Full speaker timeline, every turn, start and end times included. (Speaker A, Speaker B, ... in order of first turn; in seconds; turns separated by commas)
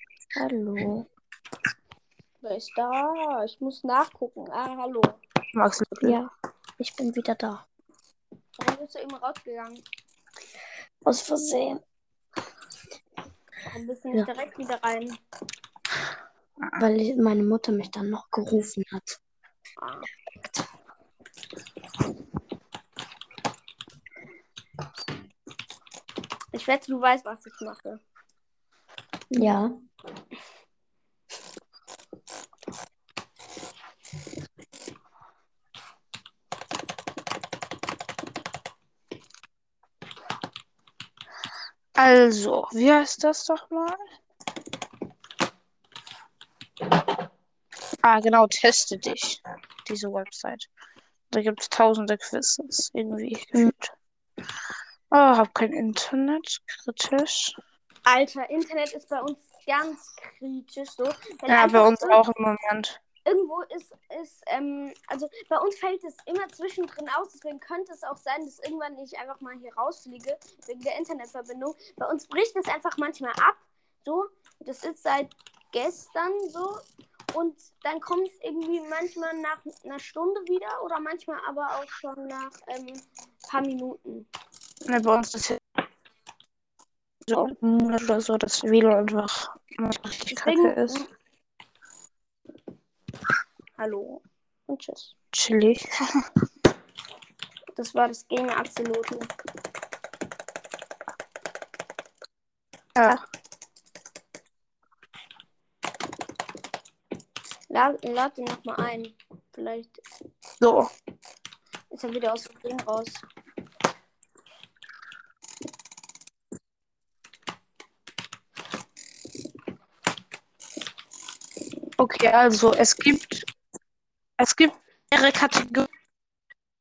Speaker A: 0.4-1.1, Speaker B: 2.4-5.2, Speaker C: 5.5-6.2, Speaker A: 6.0-7.6, Speaker B: 8.6-9.8, Speaker A: 11.1-11.8, Speaker B: 13.7-15.2, Speaker A: 16.8-19.2, Speaker B: 19.8-20.1, Speaker B: 26.5-28.0, Speaker A: 29.3-29.7, Speaker C: 42.0-44.0, Speaker C: 48.0-50.7, Speaker C: 51.3-53.9, Speaker C: 55.1-57.6, Speaker B: 58.1-62.2, Speaker C: 61.5-63.0, Speaker B: 63.3-84.3, Speaker C: 84.9-85.6, Speaker C: 87.3-91.0, Speaker B: 90.3-91.1, Speaker B: 93.8-95.1, Speaker C: 95.3-96.2, Speaker B: 97.8-99.3, Speaker B: 107.7-110.0, Speaker C: 110.6-110.9, Speaker B: 111.9-113.2, Speaker C: 122.0-123.5, Speaker C: 124.4-125.9